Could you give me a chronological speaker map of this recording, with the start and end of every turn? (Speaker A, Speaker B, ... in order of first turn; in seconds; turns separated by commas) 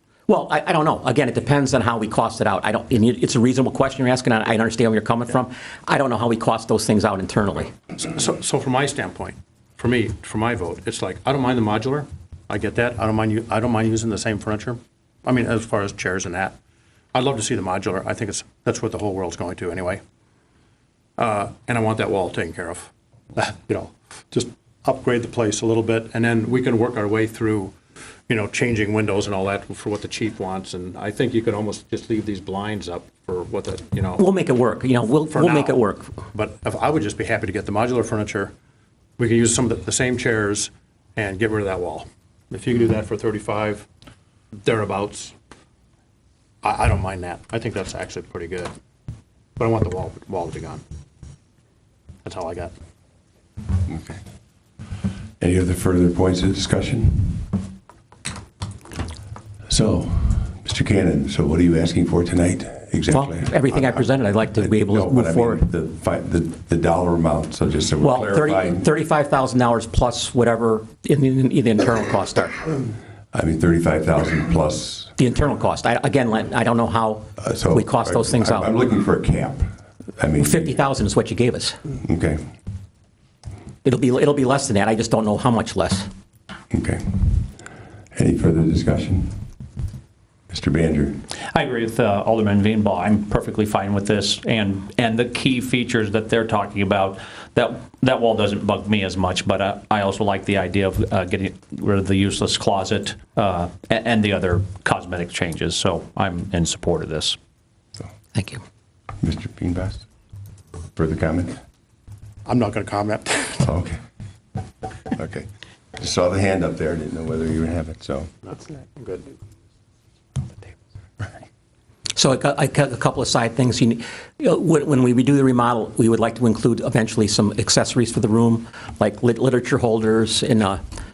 Speaker A: 0.3-7.7, Speaker B: 8.0-16.6, Speaker B: 17.1-20.0, Speaker B: 21.2-27.7, Speaker B: 28.3-34.2, Speaker A: 34.2-36.1, Speaker B: 35.3-35.8, Speaker B: 36.3-38.5, Speaker B: 39.2-43.9, Speaker B: 44.6-45.4, Speaker B: 46.6-48.7, Speaker B: 49.6-50.8, Speaker B: 52.2-52.7, Speaker C: 53.9-54.2, Speaker C: 55.4-57.6, Speaker C: 59.7-68.8, Speaker A: 63.1-65.6, Speaker A: 68.0-72.6, Speaker C: 73.3-75.1, Speaker A: 75.2-78.7, Speaker C: 77.4-80.7, Speaker A: 80.4-81.8, Speaker C: 82.0-82.4, Speaker A: 83.8-86.1, Speaker C: 86.7-87.5, Speaker C: 88.1-89.3, Speaker C: 90.5-91.2, Speaker D: 91.5-107.4, Speaker A: 108.3-108.6, Speaker C: 109.2-110.0, Speaker C: 111.0-111.6, Speaker B: 112.4-113.6, Speaker C: 113.6-114.0, Speaker C: 115.1-118.3, Speaker B: 118.4-119.3, Speaker A: 122.2-130.8